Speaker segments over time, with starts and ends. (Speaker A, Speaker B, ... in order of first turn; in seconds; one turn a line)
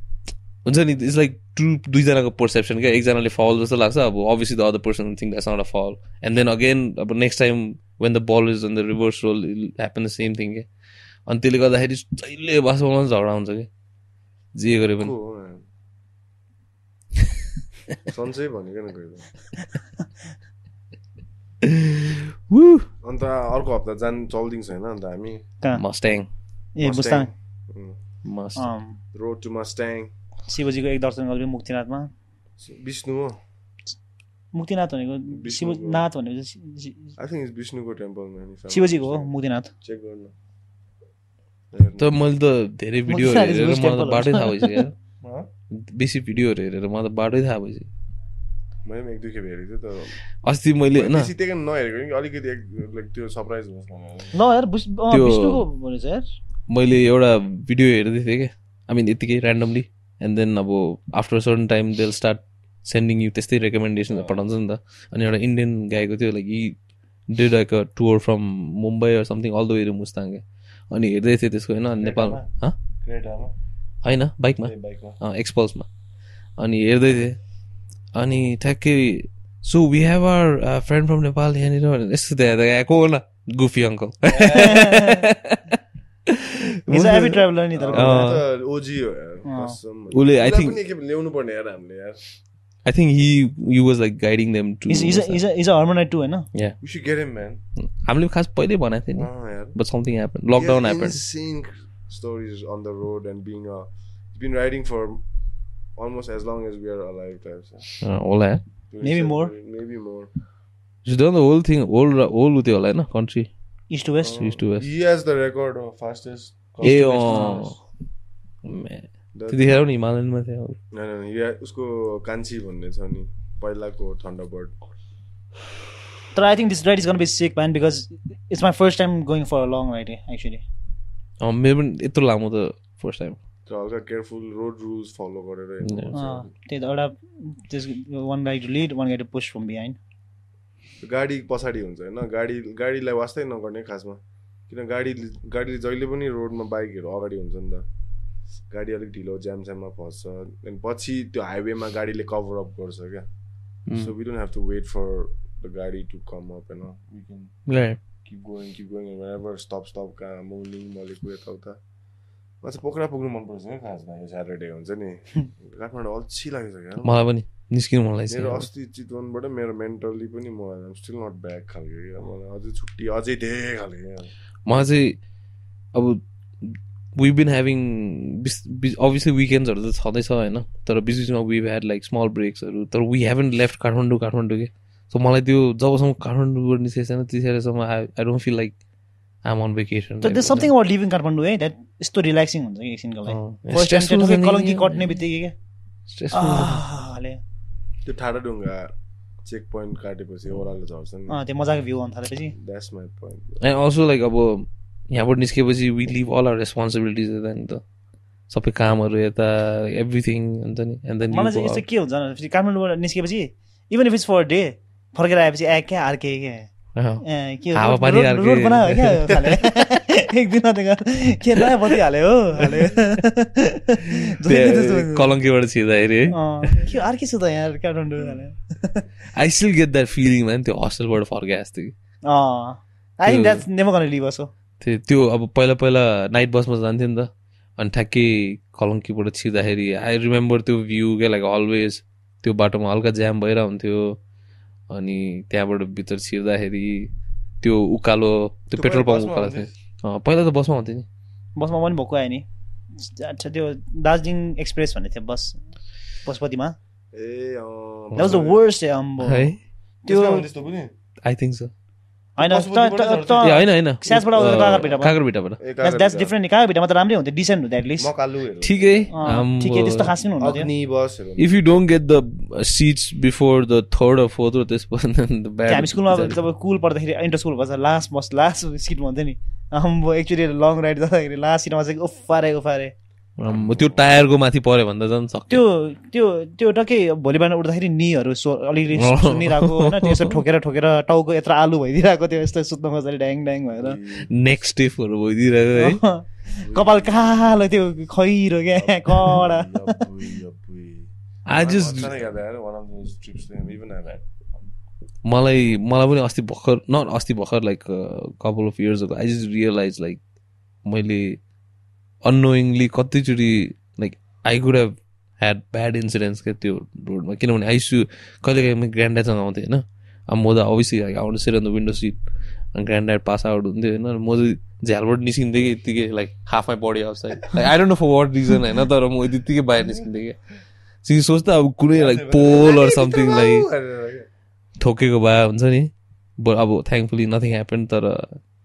Speaker A: 0.6-10.7
Speaker A: 11.3-13.7
Speaker A: 14.5-15.1
Speaker B: 15.0-15.6
Speaker B: 18.1-19.3
Speaker A: 21.6-22.9
Speaker B: 23.0-25.4
Speaker A: 25.7-26.3
Speaker C: 26.8-27.3
Speaker B: 26.8-28.0
Speaker A: 28.2-28.7
Speaker C: 28.6-29.0
Speaker B: 29.1-30.1
Speaker C: 30.5-32.1
Speaker B: 32.6-33.4
Speaker C: 34.5-37.1
Speaker B: 35.3-36.0
Speaker B: 37.2-39.3
Speaker C: 38.7-39.7
Speaker B: 39.8-40.3
Speaker B: 41.7-42.1
Speaker A: 42.0-44.9
Speaker C: 43.1-44.8
Speaker B: 45.2-45.5
Speaker A: 45.7-47.9
Speaker B: 48.8-50.1
Speaker A: 50.4-51.3
Speaker B: 50.9-54.3
Speaker C: 54.3-56.2
Speaker A: 55.1-55.6
Speaker A: 56.7-66.7
Speaker B: 64.1-64.4
Speaker A: 67.3-72.8
Speaker B: 72.0-72.5
Speaker B: 73.0-73.5
Speaker A: 74.0-75.9
Speaker B: 74.6-75.2
Speaker A: 76.6-77.4
Speaker A: 78.1-85.8
Speaker B: 84.3-84.9
Speaker C: 84.5-85.3
Speaker A: 86.3-88.4
Speaker C: 86.9-88.2
Speaker B: 87.7-92.2
Speaker C: 89.5-89.8
Speaker A: 90.1-90.8
Speaker A: 92.8-95.4
Speaker C: 94.9-96.5
Speaker B: 96.8-97.6
Speaker A: 97.8-101.2
Speaker B: 99.2-99.8
Speaker B: 100.5-105.2
Speaker B: 106.0-108.0
Speaker A: 108.0-108.6
Speaker B: 108.9-110.3
Speaker C: 109.0-109.5
Speaker A: 111.0-113.5
Speaker C: 113.9-114.5
Speaker B: 114.2-117.7
Speaker A: 114.3-114.9
Speaker A: 116.8-117.8
Speaker C: 116.8-117.7
Speaker A: 118.6-120.8
Speaker B: 119.3-119.8
Speaker B: 120.9-124.7
Speaker C: 126.3-130.6
Speaker A: 131.4-133.4
Speaker B: 133.7-136.5
Speaker A: 135.8-136.1
Speaker C: 136.1-140.0
Speaker B: 141.0-147.8
Speaker B: 148.7-153.2
Speaker A: 153.9-154.1
Speaker B: 153.9-157.5
Speaker A: 157.7-158.0
Speaker B: 158.2-161.8
Speaker B: 162.6-167.2
Speaker A: 167.0-168.7
Speaker B: 168.3-174.3
Speaker A: 174.7-175.2
Speaker A: 175.9-188.7
Speaker A: 189.4-190.7
Speaker C: 190.2-195.5
Speaker A: 193.3-195.2
Speaker A: 196.1-196.8
Speaker C: 196.3-197.4
Speaker B: 198.0-198.9
Speaker B: 199.4-201.4
Speaker C: 201.3-202.5
Speaker B: 202.5-203.6
Speaker A: 203.6-207.8
Speaker A: 208.5-211.8
Speaker C: 211.3-216.7
Speaker A: 216.9-219.7
Speaker C: 217.2-225.3
Speaker A: 224.4-226.9
Speaker C: 226.3-229.0
Speaker A: 229.3-231.9
Speaker C: 232.3-234.5
Speaker A: 233.2-233.6
Speaker A: 234.8-244.2
Speaker A: 244.9-247.1
Speaker A: 247.6-251.1
Speaker B: 248.8-249.7
Speaker C: 251.6-255.6
Speaker C: 256.2-256.8
Speaker B: 257.1-258.6
Speaker C: 258.1-259.5
Speaker A: 259.2-259.6
Speaker C: 260.0-260.4
Speaker B: 260.1-260.9
Speaker A: 261.2-261.7
Speaker C: 262.4-265.1
Speaker B: 262.4-263.6
Speaker A: 263.4-265.6
Speaker B: 264.3-264.9
Speaker B: 265.6-266.3
Speaker C: 265.8-268.1
Speaker B: 268.0-269.1
Speaker A: 268.6-270.1
Speaker C: 269.1-270.7
Speaker B: 270.4-271.6
Speaker A: 271.4-276.4
Speaker C: 275.7-282.9
Speaker A: 283.4-285.6
Speaker B: 283.4-284.2
Speaker C: 285.5-294.0
Speaker A: 289.0-290.4
Speaker B: 293.8-294.3
Speaker A: 294.3-296.0
Speaker C: 295.8-300.0
Speaker B: 296.6-297.2
Speaker B: 298.8-304.6
Speaker A: 301.5-302.2
Speaker A: 305.2-310.2
Speaker A: 310.8-311.4
Speaker A: 312.2-322.2
Speaker A: 322.7-330.4
Speaker B: 329.8-330.1
Speaker A: 331.0-333.7
Speaker B: 331.9-334.3
Speaker A: 334.8-338.4